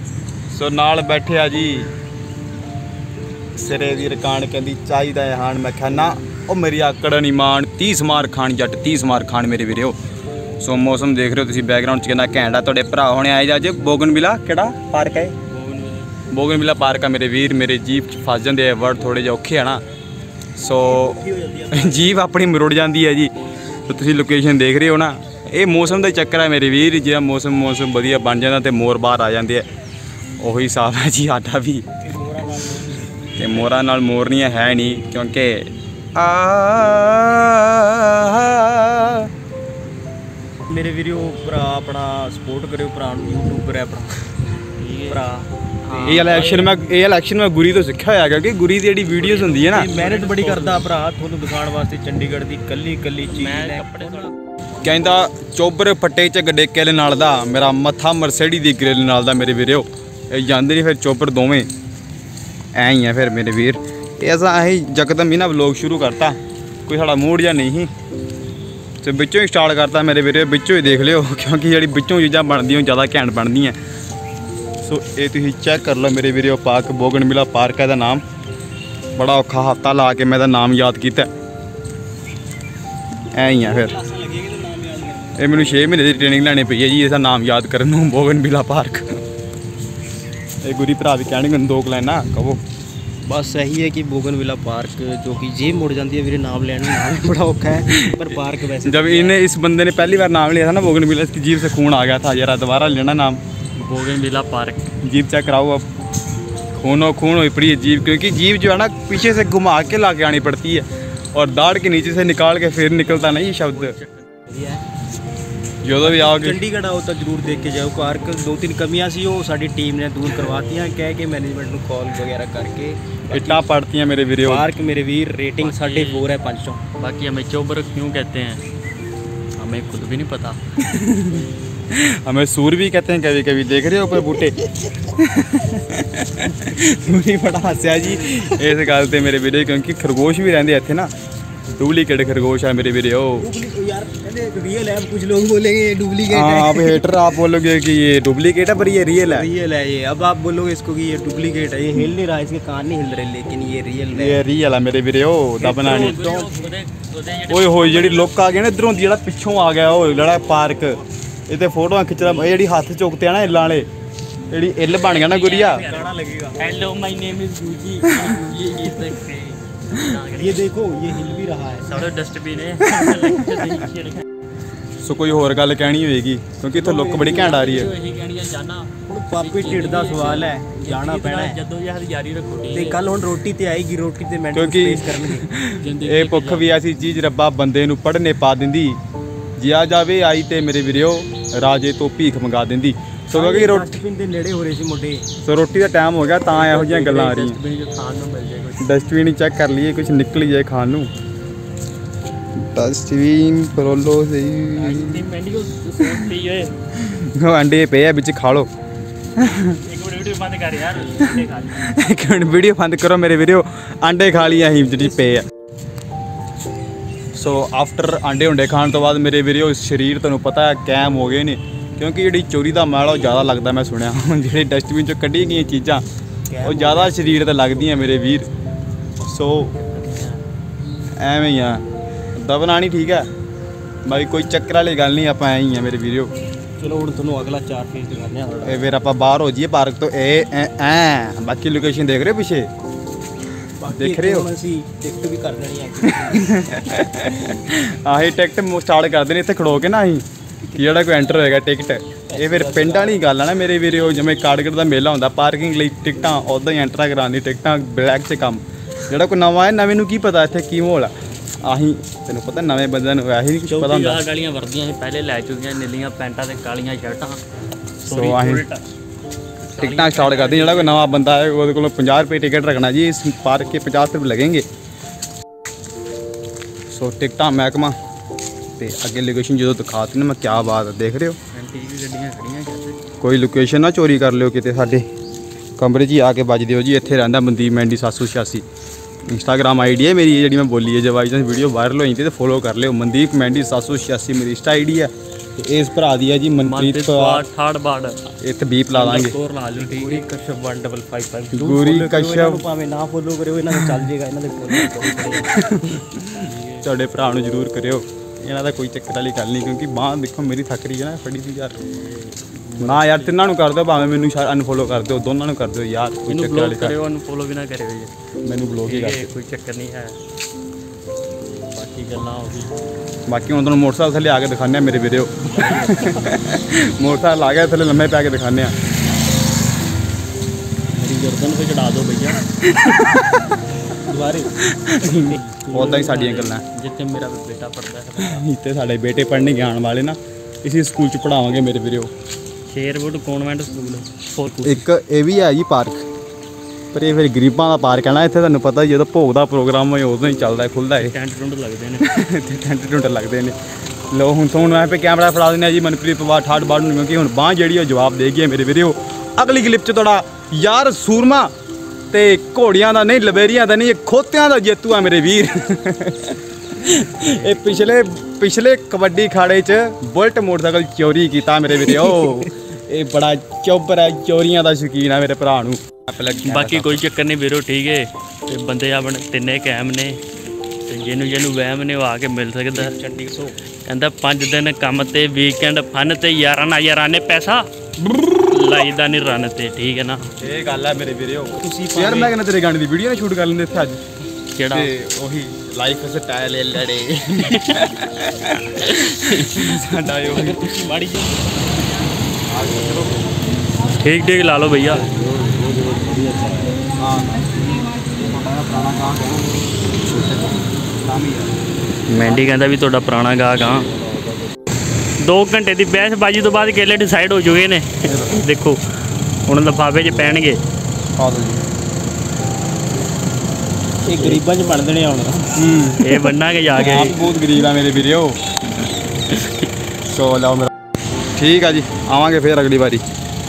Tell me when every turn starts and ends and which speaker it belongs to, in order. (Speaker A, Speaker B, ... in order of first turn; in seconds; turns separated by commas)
Speaker A: 0.5-1.9, Speaker A: 3.5-10.0, Speaker A: 10.6-15.4, Speaker B: 15.5-16.1, Speaker A: 16.3-19.8, Speaker A: 20.6-23.3, Speaker C: 20.9-22.2, Speaker A: 23.9-29.6, Speaker A: 30.4-31.8, Speaker C: 32.0-33.8, Speaker A: 33.3-39.3, Speaker C: 40.7-44.1, Speaker B: 44.8-45.3, Speaker C: 45.1-46.4, Speaker B: 45.8-46.7, Speaker A: 46.0-49.9, Speaker C: 49.1-54.3, Speaker B: 49.3-50.9, Speaker B: 53.2-54.3, Speaker A: 54.8-61.7, Speaker A: 62.7-67.9, Speaker A: 69.0-73.8, Speaker A: 74.8-78.2, Speaker A: 79.2-81.3, Speaker A: 83.3-83.9, Speaker C: 83.6-86.1, Speaker A: 85.4-89.1, Speaker A: 90.6-92.6, Speaker C: 93.2-99.4, Speaker A: 97.9-103.4, Speaker B: 103.8-104.9, Speaker A: 105.0-105.8, Speaker A: 106.8-114.0, Speaker B: 113.5-114.3, Speaker C: 114.5-114.8, Speaker A: 115.8-116.6, Speaker C: 116.0-123.7, Speaker A: 123.3-124.7, Speaker C: 124.4-126.8, Speaker B: 125.6-126.2, Speaker B: 127.0-128.6, Speaker B: 129.6-130.6, Speaker A: 130.8-141.1, Speaker A: 141.8-143.5, Speaker C: 143.4-147.2, Speaker A: 146.3-149.5, Speaker C: 149.3-154.4, Speaker A: 154.1-156.2, Speaker B: 155.6-158.3, Speaker C: 155.7-156.7, Speaker A: 157.5-163.9, Speaker A: 164.5-165.8, Speaker B: 164.9-170.7, Speaker C: 165.7-166.6, Speaker A: 168.1-168.4, Speaker C: 170.3-172.0, Speaker B: 171.8-174.2, Speaker A: 175.0-177.9, Speaker C: 176.7-177.9, Speaker B: 177.2-183.0, Speaker C: 179.1-181.6, Speaker C: 182.7-185.5, Speaker A: 184.5-189.0, Speaker B: 185.7-186.7, Speaker A: 189.6-193.9, Speaker C: 193.3-195.2, Speaker A: 195.4-197.6, Speaker B: 196.5-198.9, Speaker A: 198.8-201.1, Speaker A: 202.6-205.2, Speaker B: 204.7-206.7, Speaker A: 207.0-208.7, Speaker A: 209.4-209.8, Speaker B: 209.8-211.9, Speaker A: 211.2-215.5, Speaker A: 217.3-226.0, Speaker C: 226.5-228.0, Speaker A: 226.6-228.5, Speaker A: 229.2-229.7, Speaker B: 229.5-230.4, Speaker A: 231.2-231.8, Speaker A: 232.3-233.3, Speaker A: 234.0-236.3, Speaker C: 236.8-238.9, Speaker A: 238.6-242.7, Speaker C: 243.8-246.7, Speaker A: 243.9-244.5, Speaker A: 246.0-264.2, Speaker C: 252.3-253.2, Speaker B: 263.6-267.4, Speaker B: 268.0-268.8, Speaker A: 268.1-268.6, Speaker B: 269.7-271.2, Speaker A: 269.8-274.6, Speaker A: 276.9-277.9, Speaker A: 278.8-281.4, Speaker B: 281.5-283.0, Speaker A: 283.2-285.1, Speaker A: 285.8-288.6, Speaker A: 289.3-297.4, Speaker B: 296.6-298.3, Speaker A: 298.4-299.4, Speaker B: 298.9-300.3, Speaker C: 299.7-305.5, Speaker A: 301.5-302.6, Speaker A: 303.7-304.0, Speaker A: 304.8-311.8, Speaker B: 306.4-306.8, Speaker B: 311.8-313.4, Speaker A: 312.8-316.9, Speaker B: 316.3-318.1, Speaker A: 318.4-319.3, Speaker B: 318.8-320.2, Speaker B: 321.4-322.7, Speaker A: 323.3-328.7, Speaker B: 325.4-326.3, Speaker B: 330.9-332.4, Speaker A: 332.8-333.2, Speaker C: 334.0-335.9, Speaker A: 334.7-336.6, Speaker B: 335.5-338.4, Speaker A: 338.2-342.1, Speaker B: 342.7-344.8, Speaker A: 344.6-346.0, Speaker A: 346.9-351.1, Speaker B: 351.0-352.0, Speaker A: 352.0-353.6, Speaker A: 354.1-361.5, Speaker A: 362.1-377.0, Speaker B: 367.1-367.8, Speaker B: 376.4-380.2, Speaker B: 380.9-382.9, Speaker C: 382.7-383.6, Speaker B: 383.9-387.6, Speaker B: 388.4-390.3, Speaker A: 390.4-394.0, Speaker C: 391.5-392.4, Speaker B: 394.5-394.9, Speaker A: 394.7-400.7, Speaker B: 397.4-397.9, Speaker B: 398.8-399.8, Speaker C: 400.3-401.4, Speaker A: 402.5-403.2, Speaker B: 404.0-405.1, Speaker C: 406.2-406.7, Speaker A: 407.0-407.5, Speaker A: 408.2-409.4, Speaker A: 410.1-411.6, Speaker B: 412.1-413.9, Speaker B: 415.2-418.8, Speaker A: 418.1-418.4, Speaker B: 419.5-420.6, Speaker A: 421.1-421.6, Speaker C: 424.0-425.6, Speaker A: 425.6-428.4, Speaker B: 426.0-427.2, Speaker B: 429.3-429.7, Speaker A: 430.1-430.7, Speaker A: 431.3-433.0